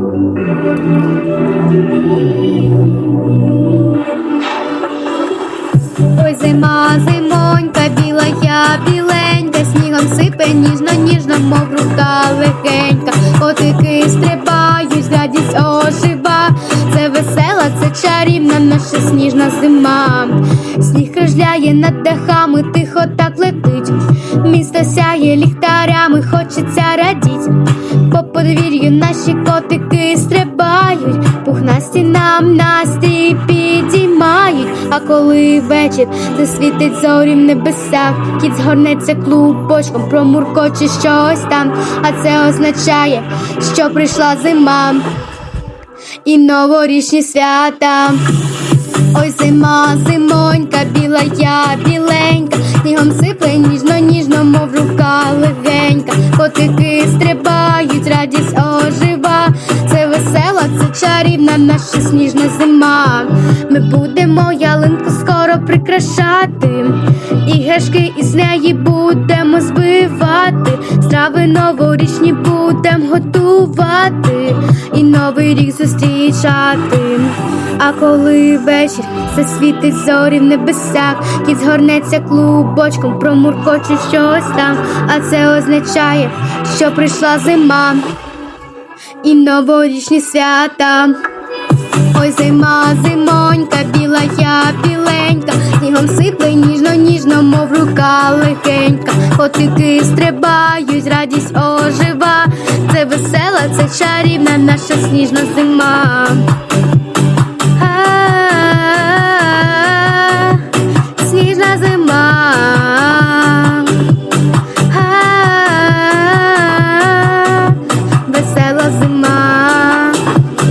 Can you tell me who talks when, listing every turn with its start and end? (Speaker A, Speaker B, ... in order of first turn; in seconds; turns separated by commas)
Speaker A: 6.1-45.1, Speaker A: 46.2-48.3, Speaker A: 49.1-88.1, Speaker A: 89.2-91.2, Speaker A: 92.1-106.6, Speaker A: 107.7-120.3